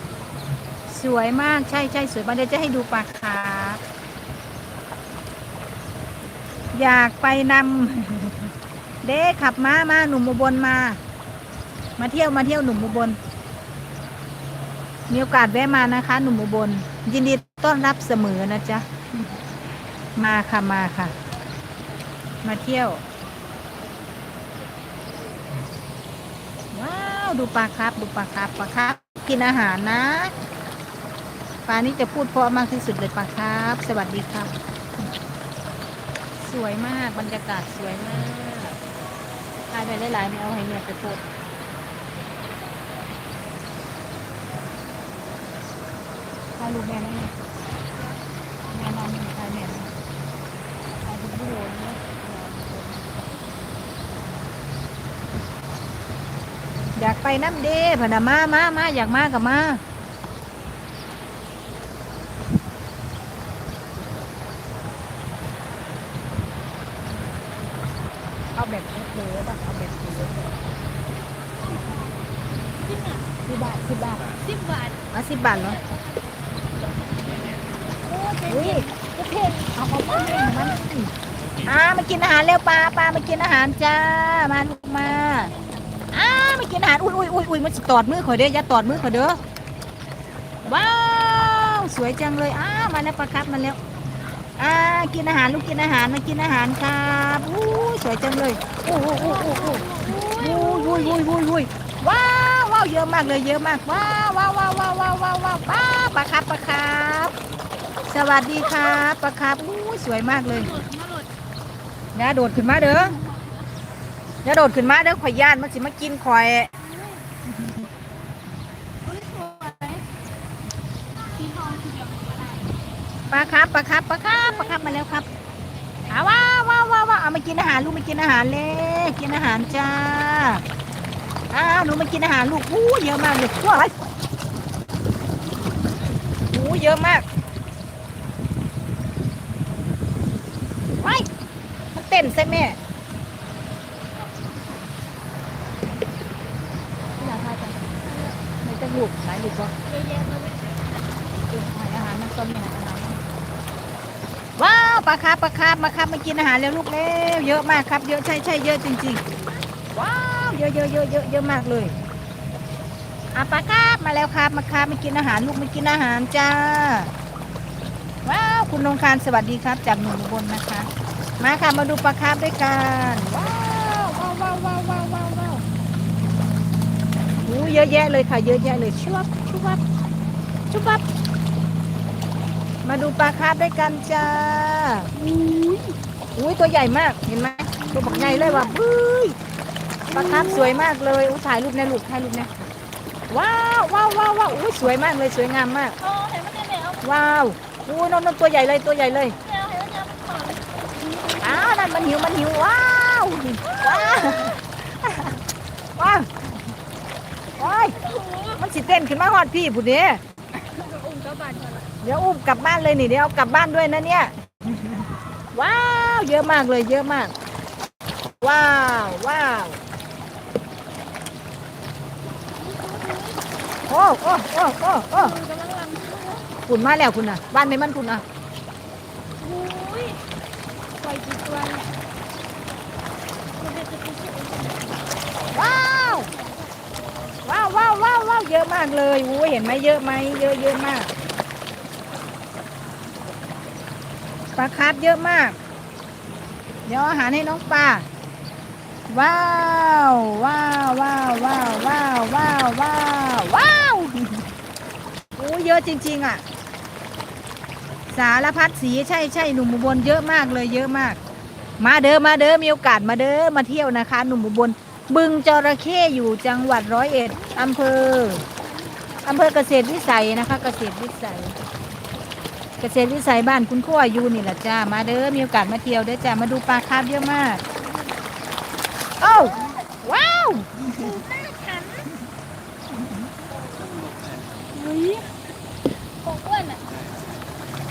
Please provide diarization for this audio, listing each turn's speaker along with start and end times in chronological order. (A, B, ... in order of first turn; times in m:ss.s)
0:00.9-0:03.8 A
0:06.7-0:08.4 A
0:09.0-0:11.0 A
0:12.0-0:13.2 A
0:15.1-0:18.8 A
0:20.2-0:21.1 A
0:22.4-0:23.0 A
0:26.7-0:30.3 A
0:31.7-0:34.5 A
0:36.4-0:38.8 A
0:39.7-0:41.2 A
0:46.6-0:47.3 A
0:48.7-0:49.9 A
0:51.0-0:53.3 A
0:57.0-0:59.8 A
1:08.6-1:10.6 A
1:12.8-1:13.2 B
1:13.4-1:14.3 A
1:14.3-1:15.0 B
1:15.1-1:15.8 A
1:17.3-1:19.2 B
1:18.5-1:21.1 A
1:20.1-1:20.8 B
1:21.6-1:25.5 A
1:26.1-1:29.4 A
1:30.7-1:33.8 A
1:34.6-1:47.4 A
1:39.0-1:41.2 B
1:48.1-1:50.7 A
1:50.6-1:51.3 B
1:52.1-1:53.2 A
1:53.2-1:53.4 B
1:54.4-1:56.7 A
1:56.8-1:57.2 B
1:59.0-2:00.0 B
2:01.4-2:02.6 B
2:03.3-2:05.2 A
2:04.4-2:04.9 B
2:06.1-2:10.6 A
2:11.5-2:13.9 A
2:16.5-2:17.2 A
2:21.0-2:21.3 A
2:22.0-2:22.8 A
2:27.2-2:29.7 A
2:29.9-2:31.2 B
2:31.5-2:33.2 A
2:34.6-2:39.2 A
2:39.9-2:42.0 A
2:43.3-2:47.1 A
2:48.2-2:50.9 A
2:51.4-2:55.6 A
2:57.4-2:59.8 A
3:00.7-3:01.0 A
3:02.8-3:05.1 A
3:05.1-3:06.0 B
3:06.4-3:09.4 A
3:07.8-3:08.7 B
3:10.1-3:10.8 B
3:10.1-3:12.5 A
3:13.3-3:16.0 A
3:16.0-3:17.2 B
3:17.0-3:19.4 A
3:19.4-3:22.3 B
3:21.4-3:25.4 A
3:23.6-3:24.6 B
3:26.0-3:26.3 A
3:27.6-3:28.0 A
3:27.6-3:28.6 B
3:28.6-3:30.2 A
3:30.6-3:31.9 B
3:32.0-3:37.3 A
3:38.4-3:39.8 A
3:42.6-3:43.4 B
3:43.9-3:45.3 A
3:45.1-3:46.6 B
3:46.7-3:48.2 A
3:49.4-3:50.2 B
3:51.0-3:51.9 B
3:53.6-3:55.0 B
3:55.5-3:56.3 A
3:55.6-3:56.7 B
3:57.4-4:01.1 A
4:04.6-4:05.6 A
4:06.9-4:08.1 A
4:09.1-4:14.5 A
4:15.4-4:16.4 A
4:18.1-4:21.2 A
4:21.8-4:28.4 A
4:28.6-4:29.2 B
4:29.2-4:31.6 A
4:32.8-4:37.6 A
4:37.7-4:38.3 B
4:39.2-4:41.1 A
4:40.9-4:42.1 B
4:43.7-4:45.3 B
4:46.2-4:46.9 B